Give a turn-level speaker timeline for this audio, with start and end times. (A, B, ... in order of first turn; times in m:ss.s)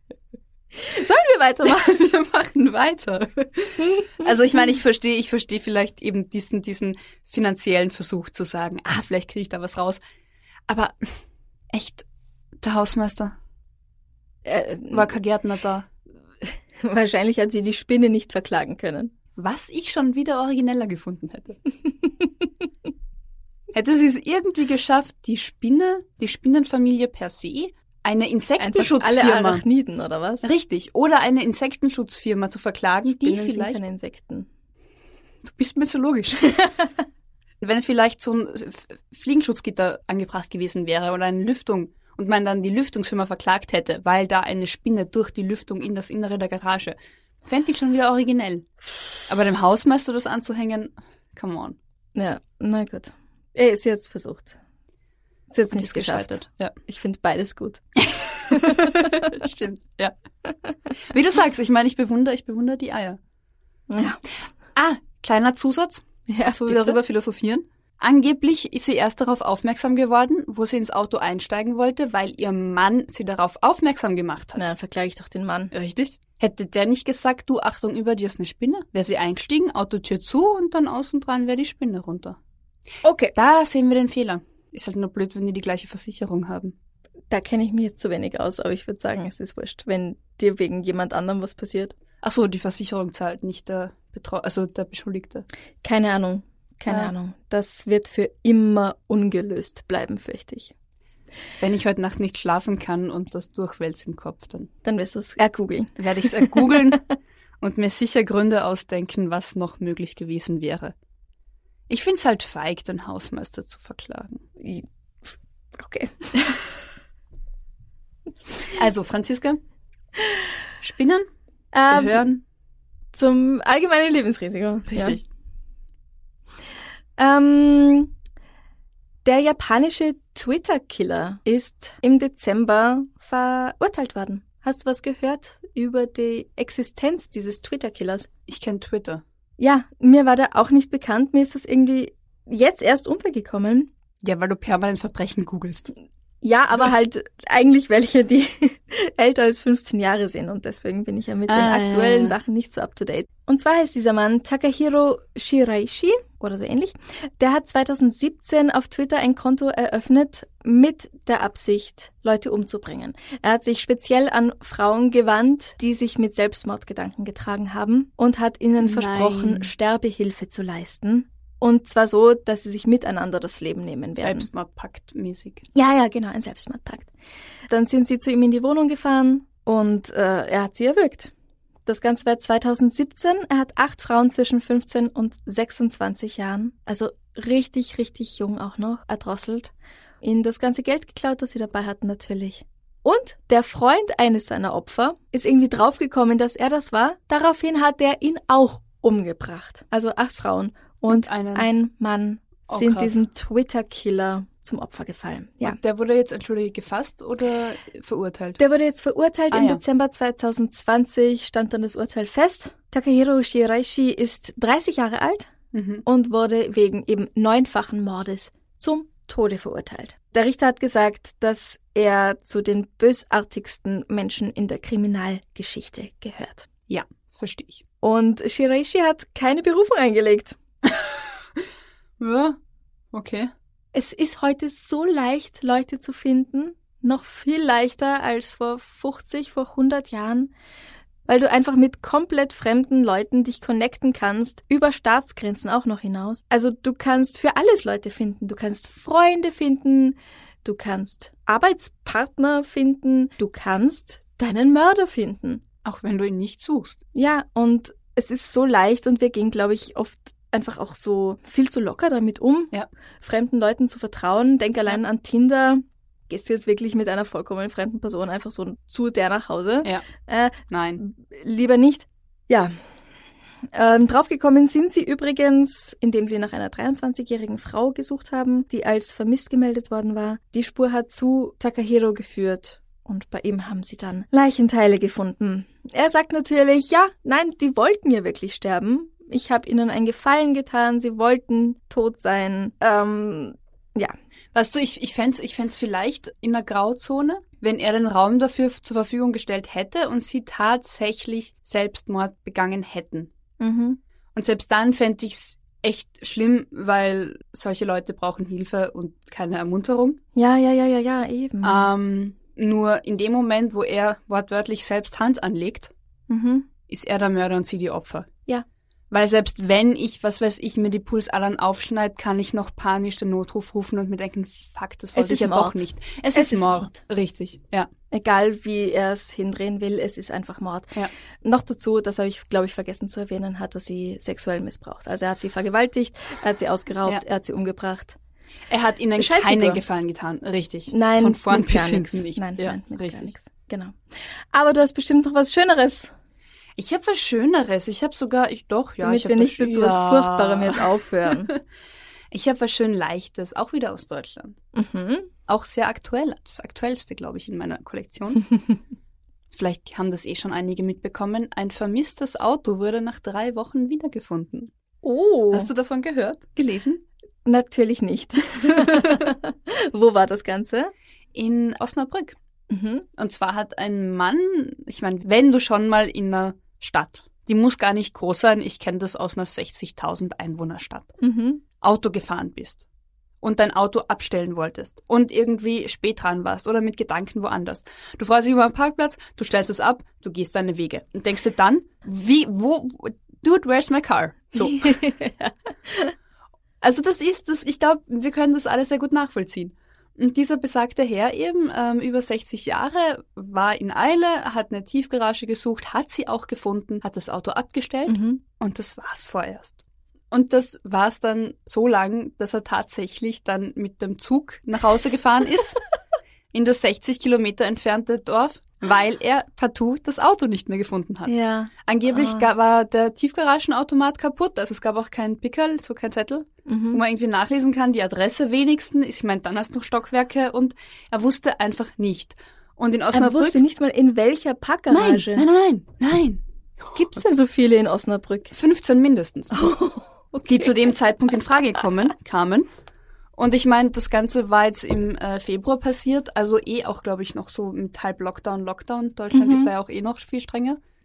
0:00.8-0:02.0 A
0:01.6-0:10.0 B
0:10.7-0:11.2 B
0:11.7-0:12.0 B
0:12.6-0:13.4 B
0:14.4-0:15.1 A
0:14.9-0:15.9 B
0:16.4-0:19.1 A
0:19.4-0:21.6 B
0:23.7-0:29.6 B
0:28.6-0:30.5 A
0:30.4-0:33.8 B
0:33.2-0:34.5 A
0:35.4-0:36.6 B
0:37.6-0:48.7 B
0:49.3-0:51.8 B
0:52.1-0:54.6 A
0:55.5-0:57.8 A
0:55.7-0:56.7 B
0:58.0-1:00.1 B
0:58.5-0:59.2 A
1:01.1-1:03.2 B
1:03.9-1:04.2 A
1:04.7-1:14.7 B
1:06.3-1:07.0 A
1:14.6-1:15.7 A
1:15.7-1:22.4 B
1:23.0-1:23.3 A
1:23.3-1:26.7 B
1:27.3-1:31.9 A
1:32.2-1:35.4 B
1:35.8-1:40.7 A
1:41.6-1:44.7 B
1:44.8-1:47.0 A
1:46.0-1:47.0 B
1:47.6-1:50.9 B
1:51.9-1:54.4 B
1:54.6-1:54.8 A
1:55.8-1:56.7 A
1:58.7-1:59.6 B
2:00.8-2:01.2 B
2:01.7-2:02.2 A
2:01.9-2:02.4 B
2:03.1-2:05.2 A
2:04.9-2:05.2 B
2:07.2-2:08.1 A
2:09.2-2:18.3 A
2:18.5-2:19.2 B
2:19.6-2:23.9 A
2:24.2-2:25.9 B
2:26.4-2:54.5 A
2:31.5-2:32.3 B
2:48.8-2:49.7 B
2:54.2-2:55.6 B
2:55.7-2:57.1 A
2:57.7-3:01.3 A
3:01.8-3:25.8 A
3:21.1-3:21.7 B
3:22.7-3:23.2 B
3:25.6-3:28.6 B
3:28.6-3:35.5 A
3:29.5-3:29.8 B
3:35.7-3:36.0 B
3:36.0-3:46.7 A
3:46.9-3:47.8 B
3:48.0-3:50.6 A
3:50.8-3:51.1 B
3:52.2-3:52.6 B
3:53.1-3:53.5 B
3:53.9-4:00.5 A
4:01.2-4:15.6 A
4:15.8-4:17.0 B
4:17.1-4:32.8 A
4:30.7-4:31.0 B
4:33.7-4:54.1 A
4:54.5-5:03.3 B
5:03.6-5:04.0 A
5:04.3-5:10.2 B
5:10.3-5:11.9 A
5:11.6-5:15.9 B
5:16.3-5:16.7 A
5:16.9-5:18.3 B
5:19.1-5:27.9 B
5:25.2-5:25.8 A
5:26.3-5:26.9 A
5:28.1-5:38.2 A
5:38.7-5:43.3 B
5:39.2-5:39.8 A
5:40.9-5:46.1 A
5:46.8-5:51.6 B
5:49.0-5:51.5 A
5:52.3-5:54.6 B
5:54.7-5:55.3 A
5:55.5-5:58.5 B
5:59.5-6:04.7 B
6:05.0-6:05.7 A
6:05.5-6:07.0 B
6:07.4-6:10.9 A
6:11.3-6:12.4 B
6:12.7-6:13.1 A
6:13.2-6:21.1 B
6:21.2-6:21.6 A
6:21.8-6:22.8 B
6:23.4-6:35.0 B
6:34.6-6:36.1 A
6:36.8-6:55.8 B
6:48.1-6:48.4 A
6:56.5-7:01.3 B
7:01.2-7:02.5 A
7:01.8-7:13.6 B
7:06.7-7:07.0 A
7:13.1-7:15.4 A
7:14.9-7:17.0 B
7:16.9-7:18.5 A
7:18.5-7:19.6 B
7:19.5-7:20.7 A
7:20.4-7:22.7 B
7:23.4-7:30.8 B
7:29.3-7:29.7 A